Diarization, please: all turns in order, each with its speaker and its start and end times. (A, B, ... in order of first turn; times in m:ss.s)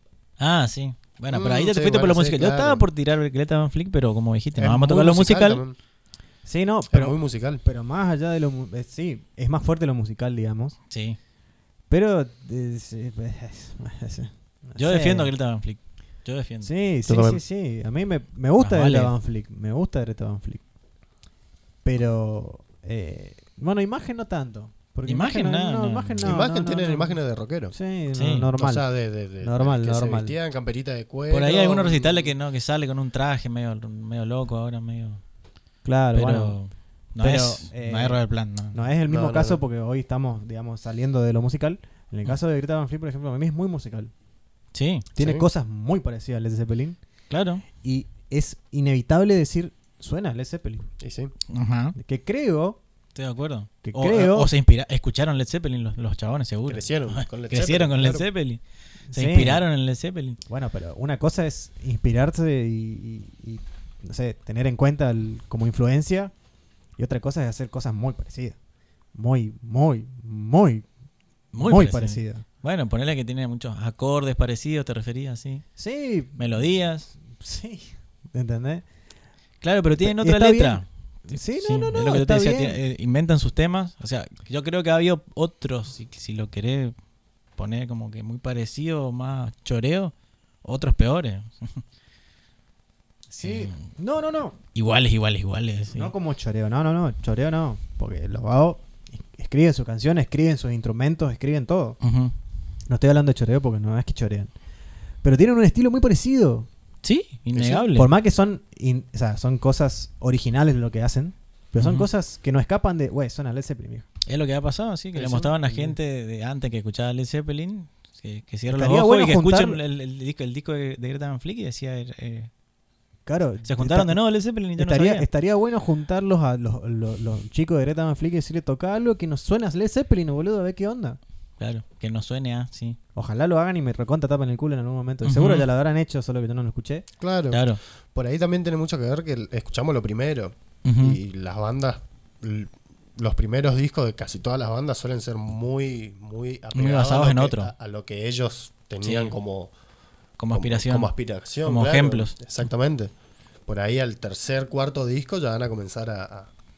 0:00.4-0:05.6 A
0:01.3-0:02.9 B
0:04.6-0:05.8 B
0:06.4-0:10.8 C
0:06.9-0:07.6 B
0:10.9-0:11.2 A
0:11.9-0:15.3 C
0:14.8-0:16.7 A
0:16.6-0:20.6 C
0:17.1-0:17.4 B
0:18.6-0:19.1 A
0:21.8-0:27.2 C
0:25.1-0:26.3 A
0:26.2-0:27.8 B
0:27.7-0:28.9 C
0:28.2-0:28.5 A
0:28.6-0:32.3 B
0:29.4-0:30.4 C
0:31.3-0:35.2 A
0:35.8-0:36.6 C
0:36.2-0:38.8 A
0:37.2-0:38.2 C
0:38.7-0:44.1 C
0:39.1-0:39.6 B
0:44.7-0:45.1 A
0:45.2-0:47.0 C
0:45.2-0:45.5 B
0:47.3-0:47.6 A
0:47.8-0:50.9 C
0:51.0-0:51.3 B
0:51.5-0:52.0 A
0:52.0-0:52.8 C
0:53.2-0:58.6 A
0:53.8-0:54.5 C
0:56.7-0:58.3 B
0:59.1-0:59.6 C
0:59.1-1:00.4 A
1:00.5-1:06.3 C
1:07.0-1:08.6 C
1:09.2-1:10.9 C
1:11.5-1:12.4 C
1:11.5-1:15.7 A
1:15.8-1:16.6 C
1:16.4-1:17.1 A
1:17.2-1:18.8 C
1:19.6-1:26.9 A
1:20.0-1:22.8 C
1:27.6-1:30.1 A
1:30.6-1:31.8 A
1:33.3-1:34.6 C
1:33.4-1:33.8 A
1:34.8-1:36.1 A
1:35.9-1:42.0 C
1:42.0-1:42.3 A
1:42.9-1:44.5 C
1:45.2-1:46.7 C
1:47.0-1:48.1 A
1:47.5-1:47.8 B
1:47.9-1:54.1 C
1:51.8-1:52.1 A
1:54.3-2:02.5 A
1:55.2-1:55.5 B
1:55.2-1:55.9 C
1:58.7-1:59.8 C
2:03.3-2:04.2 C
2:03.7-2:05.2 A
2:04.8-2:11.2 C
2:11.6-2:13.0 A
2:13.2-2:17.0 C
2:15.2-2:15.7 A
2:17.2-2:29.7 B
2:17.5-2:17.8 A
2:20.8-2:21.2 A
2:26.8-2:27.7 A
2:29.0-2:29.3 A
2:30.4-2:31.1 A
2:30.5-2:33.1 B
2:31.6-2:32.4 A
2:33.7-2:36.5 B